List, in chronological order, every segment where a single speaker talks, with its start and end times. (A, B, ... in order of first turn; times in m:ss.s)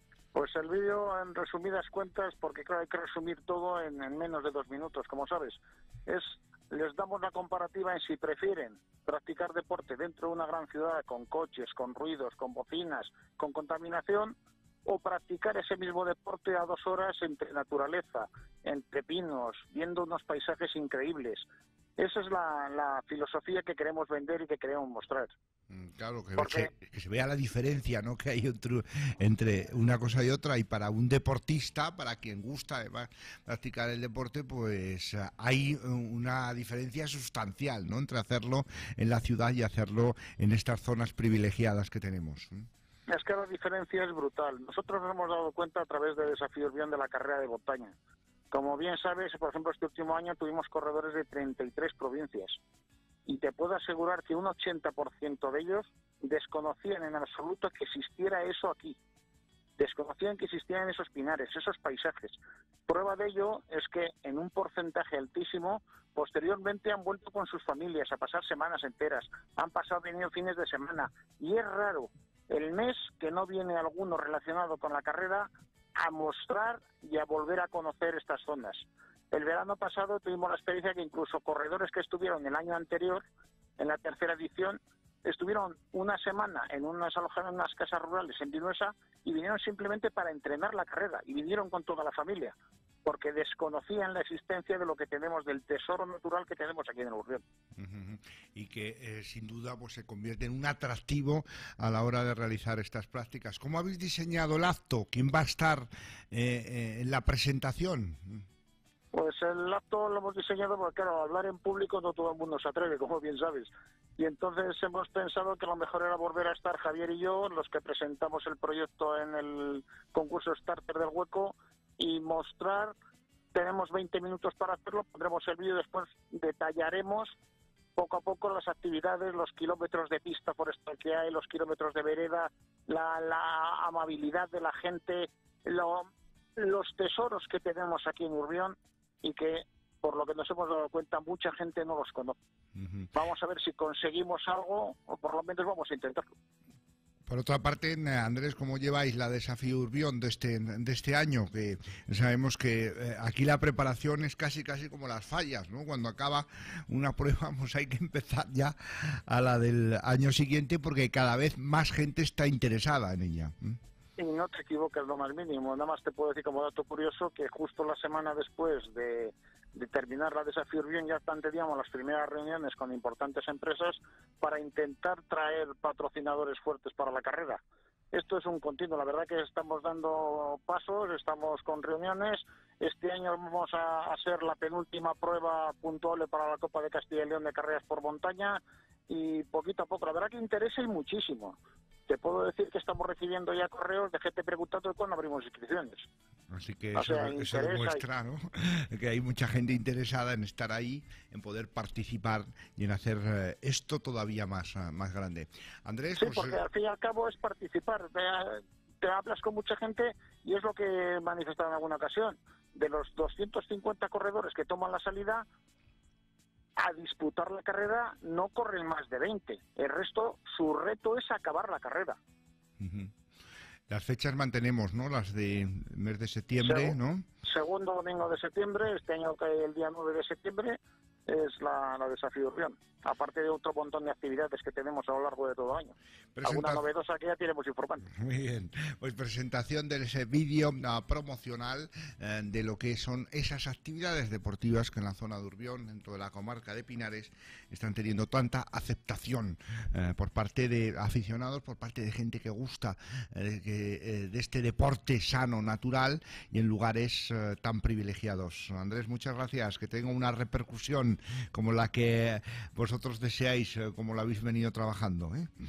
0:00.3-0:21.5 A
0:22.0-0:25.3 A
0:25.7-0:42.6 B
0:26.4-0:26.7 A
0:43.1-0:48.0 A
0:48.5-0:52.6 A
0:53.3-0:59.0 A
0:59.8-1:23.2 A
1:23.8-1:37.4 A
1:37.8-1:48.4 B
1:49.1-2:03.0 A
2:03.5-2:07.4 A
2:08.0-2:22.4 A
2:22.8-2:23.1 B
2:23.1-2:26.3 A
2:27.3-2:43.8 B
2:44.2-2:57.6 A
2:58.1-3:16.1 A
3:16.5-3:26.6 B
3:17.0-3:18.0 A
3:26.2-3:35.4 A
3:36.8-3:42.2 A
3:42.8-3:43.1 B
3:43.9-3:47.2 B
3:46.6-3:58.1 A
3:56.4-3:56.8 B
3:58.1-4:25.5 B